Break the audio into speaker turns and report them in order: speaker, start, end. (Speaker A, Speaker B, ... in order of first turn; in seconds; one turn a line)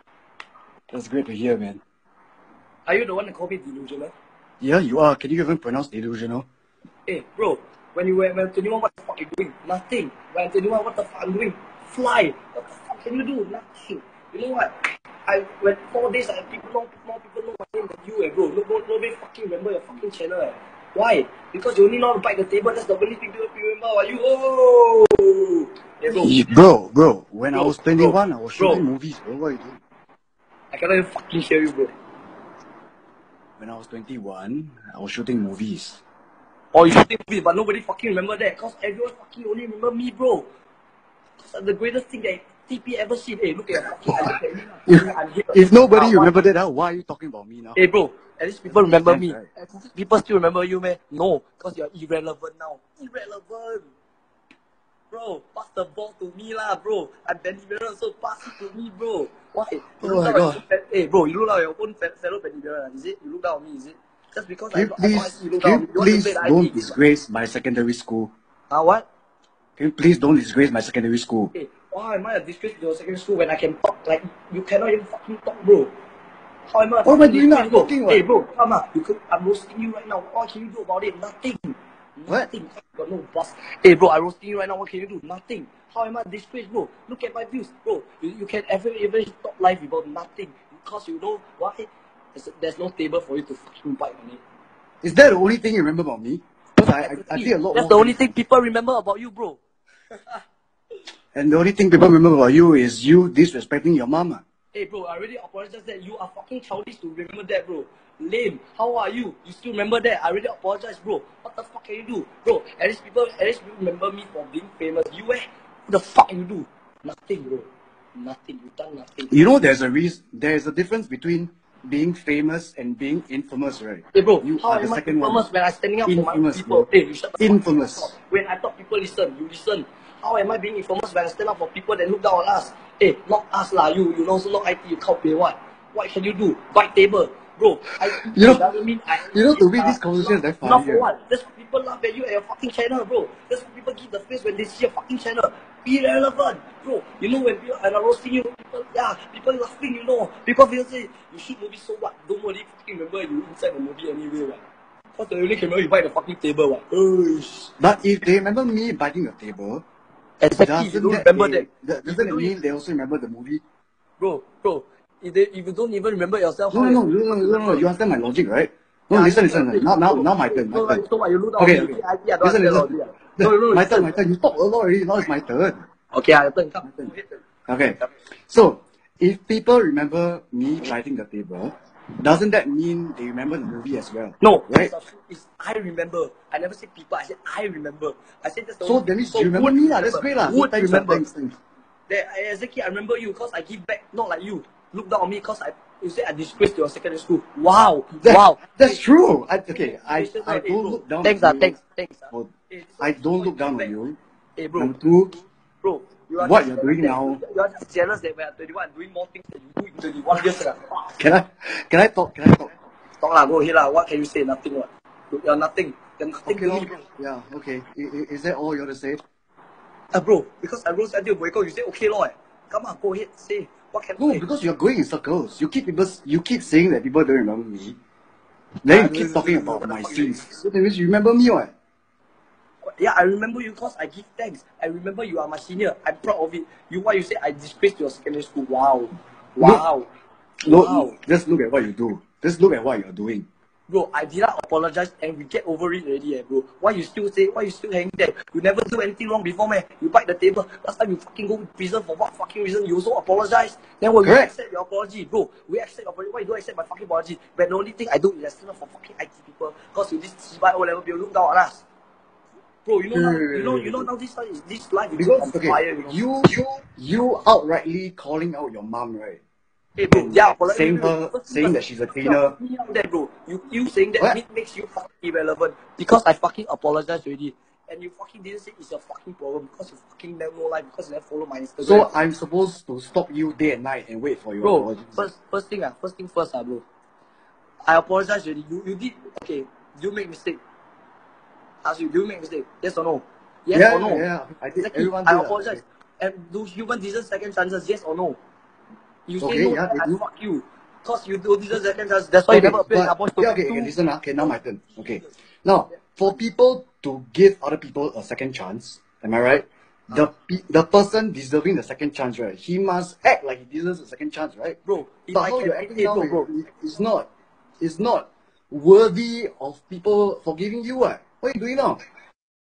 Speaker A: 0.9-1.8
Speaker B: 2.9-4.1
Speaker A: 4.6-6.5
Speaker B: 7.1-14.7
Speaker B: 15.3-26.3
Speaker A: 26.1-29.8
Speaker B: 27.5-28.8
Speaker B: 30.7-31.9
Speaker A: 33.6-36.0
Speaker B: 36.7-40.5
Speaker B: 41.4-46.4
Speaker A: 44.9-47.8
Speaker B: 47.8-53.9
Speaker A: 48.6-49.5
Speaker B: 55.1-67.0
Speaker A: 60.0-60.6
Speaker A: 64.7-68.3
Speaker B: 68.7-69.0
Speaker A: 69.8-71.5
Speaker B: 71.5-75.9
Speaker B: 76.7-94.4
Speaker A: 77.0-78.5
Speaker A: 95.0-98.3
Speaker B: 96.8-99.6
Speaker B: 100.1-100.4
Speaker A: 101.3-104.4
Speaker B: 104.7-119.3
Speaker A: 119.3-125.4
Speaker B: 124.1-154.6
Speaker A: 126.1-126.9
Speaker A: 127.4-128.1
Speaker A: 138.2-138.6
Speaker A: 139.3-141.1
Speaker B: 155.1-157.7
Speaker A: 157.8-159.8
Speaker B: 160.4-162.5
Speaker A: 160.6-163.6
Speaker B: 164.2-167.9
Speaker A: 166.7-171.0
Speaker B: 169.1-174.1
Speaker A: 171.6-175.8
Speaker B: 176.1-177.4
Speaker A: 177.7-184.9
Speaker B: 184.4-191.3
Speaker A: 188.8-191.6
Speaker B: 192.1-199.0
Speaker A: 198.2-201.8
Speaker B: 199.9-203.9
Speaker A: 202.3-204.2
Speaker B: 204.6-204.9
Speaker A: 204.8-205.4
Speaker B: 205.8-211.0
Speaker A: 206.4-207.4
Speaker A: 211.2-212.7
Speaker B: 213.2-216.9
Speaker A: 216.4-219.2
Speaker B: 220.1-224.4
Speaker A: 224.2-228.0
Speaker A: 228.8-231.7
Speaker B: 228.9-230.6
Speaker B: 232.8-240.1
Speaker A: 240.6-243.5
Speaker B: 240.7-241.2
Speaker B: 243.9-261.8
Speaker A: 254.2-254.5
Speaker B: 262.8-266.2
Speaker A: 263.1-264.1
Speaker A: 265.1-269.4
Speaker B: 270.0-282.1
Speaker A: 270.1-272.6
Speaker A: 281.8-285.3
Speaker B: 284.6-286.8
Speaker B: 287.8-290.6
Speaker B: 291.8-294.2
Speaker A: 293.7-295.8
Speaker B: 294.7-298.4
Speaker B: 299.3-305.3
Speaker A: 299.4-300.2
Speaker A: 302.5-314.8
Speaker B: 314.8-316.5
Speaker A: 315.3-317.3
Speaker A: 317.8-322.0